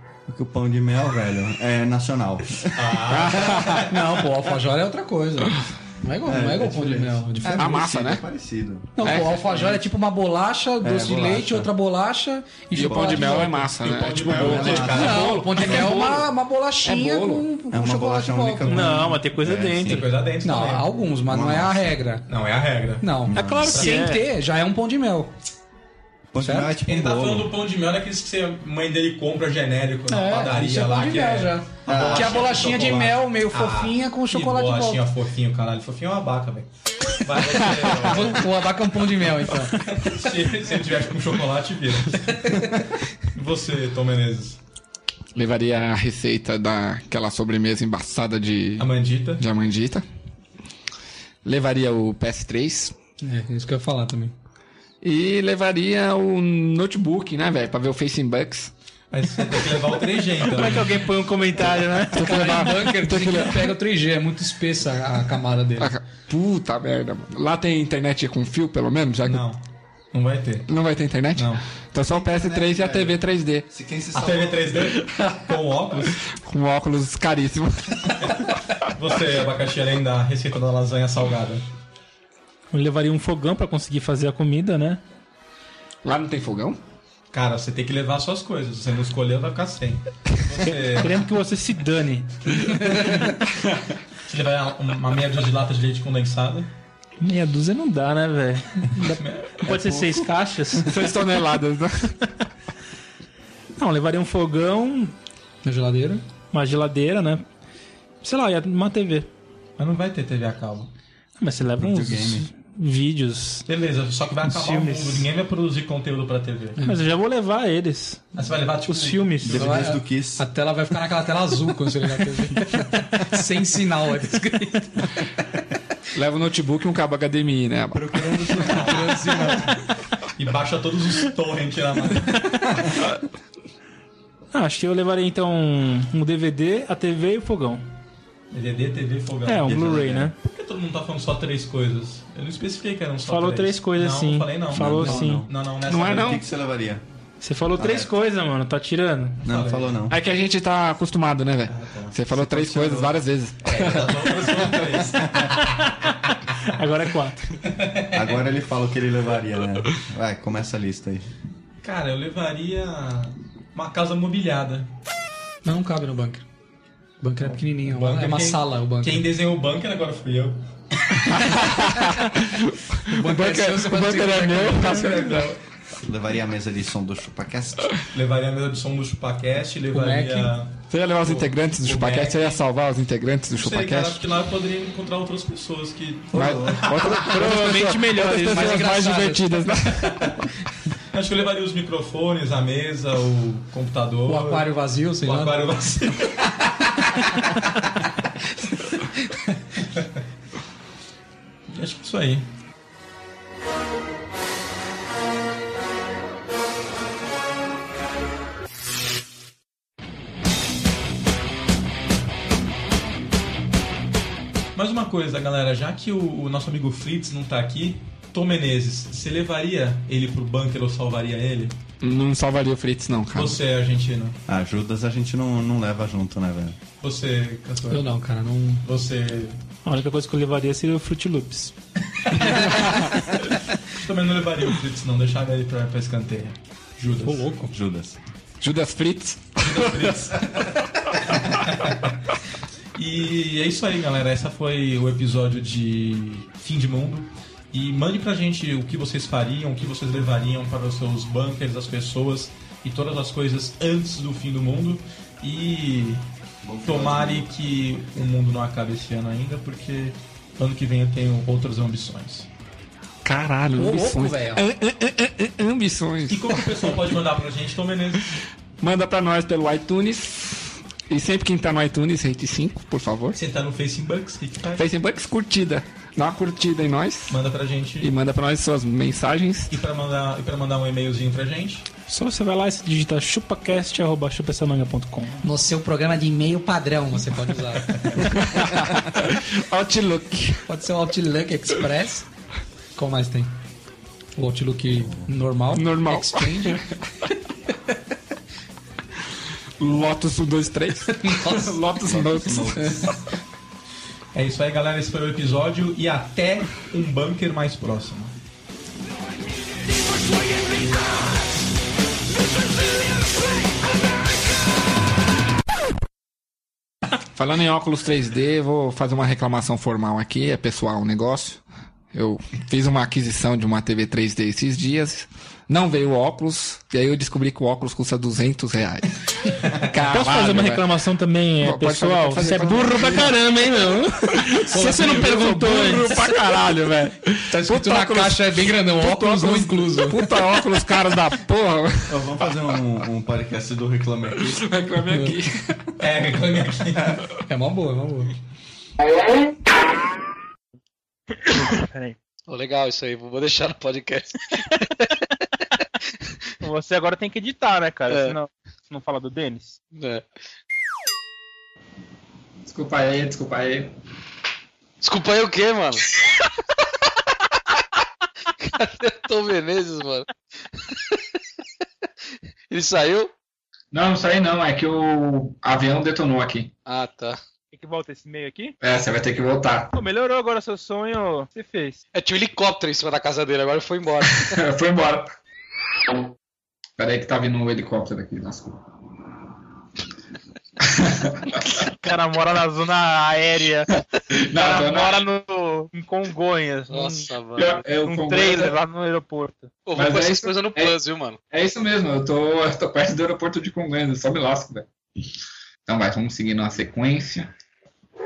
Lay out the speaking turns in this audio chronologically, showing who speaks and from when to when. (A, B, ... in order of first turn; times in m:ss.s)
0:00.3-0:03.5 A
0:02.7-0:03.9 B
0:03.1-0:03.8 C
0:03.8-0:07.8 D
0:06.2-0:09.8 A
0:07.5-0:08.2 C
0:09.0-0:13.8 D
0:09.0-0:09.4 C
0:10.8-0:11.7 A
0:12.7-0:16.3 C
0:12.9-0:13.2 A
0:13.7-0:16.0 B
0:14.2-0:15.4 A
0:14.9-0:19.1 D
0:16.8-0:17.5 C
0:17.7-0:20.1 A
0:18.7-0:20.0 E
0:19.8-0:20.9 B
0:20.4-0:22.3 D
0:21.3-0:21.9 A
0:22.3-0:24.1 B
0:23.0-0:25.4 D
0:23.3-0:23.8 A
0:23.3-0:24.2 E
0:26.3-0:27.5 A
0:26.4-0:26.8 D
0:26.9-0:38.6 B
0:30.1-0:35.1 D
0:31.9-0:32.5 A
0:37.8-0:40.0 D
0:39.5-0:42.2 B
0:43.4-0:44.6 B
0:45.4-0:50.0 C
0:48.8-0:49.4 B
0:51.4-0:53.0 C
0:53.2-0:54.3 D
0:55.0-0:58.7 C
0:59.1-1:01.0 B
1:00.4-1:02.3 E
1:02.1-1:03.7 C
1:02.1-1:05.9 D
1:05.8-1:09.4 C
1:09.2-1:10.7 B
1:10.7-1:13.7 C
1:11.4-1:11.6 B
1:12.1-1:15.0 A
1:14.1-1:16.2 B
1:16.3-1:18.3 C
1:19.0-1:21.7 B
1:22.7-1:25.0 E
1:26.0-1:26.8 C
1:27.3-1:31.2 B
1:30.7-1:33.0 E
1:34.3-1:36.7 B
1:37.2-1:40.9 E
1:39.2-1:39.6 B
1:39.6-1:41.0 A
1:40.9-1:42.2 C
1:43.8-1:45.2 E
1:45.6-1:46.2 D
1:46.5-1:47.4 E
1:48.2-1:49.3 E
1:49.8-1:50.9 B
1:51.4-1:53.7 E
1:51.8-1:52.5 A
1:53.7-1:56.8 B
1:54.5-1:55.3 E
1:56.8-1:58.3 E
1:58.3-1:59.5 B
1:58.9-1:59.7 E
1:59.5-2:00.5 A
1:59.5-2:05.2 D
2:06.2-2:08.4 C
2:07.9-2:09.7 A
2:08.7-2:09.8 D
2:10.4-2:12.5 B
2:14.5-2:17.8 E
2:18.5-2:26.4 B
2:19.5-2:20.4 E
2:19.7-2:20.3 A
2:23.2-2:25.5 E
2:24.7-2:27.0 A
2:25.9-2:26.4 C
2:27.4-2:29.4 E
2:27.8-2:28.1 A
2:29.4-2:30.0 B
2:29.4-2:30.2 A
2:30.1-2:34.3 C
2:31.7-2:32.1 B
2:32.3-2:33.2 A
2:33.6-2:35.6 B
2:36.7-2:37.5 E
2:37.7-2:38.2 B
2:38.1-2:41.3 A
2:41.8-2:44.9 B
2:45.6-2:46.4 D
2:47.2-2:49.3 D
2:47.4-2:50.6 B
2:51.3-2:55.5 C
2:53.1-2:55.1 D
2:54.6-2:55.6 B
2:56.0-2:57.9 A
2:58.1-3:02.6 B
2:59.9-3:00.6 D
3:00.9-3:04.2 C
3:03.5-3:07.3 B
3:06.3-3:07.1 A
3:06.3-3:10.4 C
3:07.2-3:09.1 E
3:08.3-3:09.4 D
3:11.1-3:14.7 B
3:14.3-3:15.7 D
3:15.2-3:16.3 B
3:21.7-3:22.4 B
3:34.8-3:41.8 B
3:42.0-3:43.6 C
3:43.3-3:44.4 B
3:44.5-3:46.8 A
3:47.0-3:48.1 B
3:47.9-3:48.9 D
3:48.8-3:49.6 B
3:49.8-3:51.7 E
3:52.1-3:52.9 B
3:54.0-3:57.5 B
3:57.2-3:57.7 D
3:57.7-3:58.2 A
3:58.6-4:00.1 C
3:59.6-4:00.7 B
4:01.3-4:02.1 B
4:03.0-4:16.2 B
4:16.6-4:17.6 A
4:16.9-4:22.5 B
4:23.2-4:27.0 C
4:23.8-4:24.6 D
4:26.3-4:28.3 B
4:28.8-4:33.4 C
4:33.3-4:34.8 B
4:34.8-4:37.4 C
4:37.3-4:38.1 B
4:38.0-4:39.8 C
4:39.7-4:41.9 B
4:42.1-4:45.4 E
4:45.4-4:48.7 D
4:48.2-4:50.6 C
4:50.7-4:52.3 D
4:53.0-4:53.6 D
4:54.4-4:56.8 D
4:55.7-4:56.8 C
4:59.8-5:03.2 C
5:01.1-5:01.8 D
5:02.0-5:03.2 A
5:02.8-5:03.1 D
5:04.3-5:08.3 B
5:17.4-5:30.9 C
5:30.1-5:36.2 E
5:31.6-5:33.4 C
5:34.8-5:42.2 C
5:34.9-5:35.3 D
5:37.5-5:40.5 D
5:42.1-5:44.6 A
5:44.5-5:45.8 C
5:45.0-5:45.4 D
5:46.0-5:47.2 B
5:47.5-5:48.3 D
5:51.4-5:52.2 F
5:52.5-5:55.1 G
5:56.6-5:59.8 F
5:58.1-5:58.4 G
6:00.0-6:00.2 G
6:02.6-6:03.9 H
6:05.0-6:06.1 G
6:08.6-6:10.3 G
6:10.9-6:11.2 G
6:12.7-6:13.3 G
6:13.9-6:16.7 H
6:16.9-6:17.4 G
6:17.7-6:18.8 F
6:18.8-6:19.9 H
6:19.9-6:22.0 F
6:22.1-6:24.6 G
6:24.4-6:25.3 H
6:27.0-6:28.8 H
6:30.8-6:31.8 H
6:32.0-6:34.0 F
6:34.3-6:35.2 H
6:34.5-6:39.7 F
6:36.9-6:37.8 G
6:37.6-6:38.8 H
6:39.9-6:41.4 G
6:40.0-6:41.0 H
6:41.5-6:44.9 H
6:45.9-6:47.5 H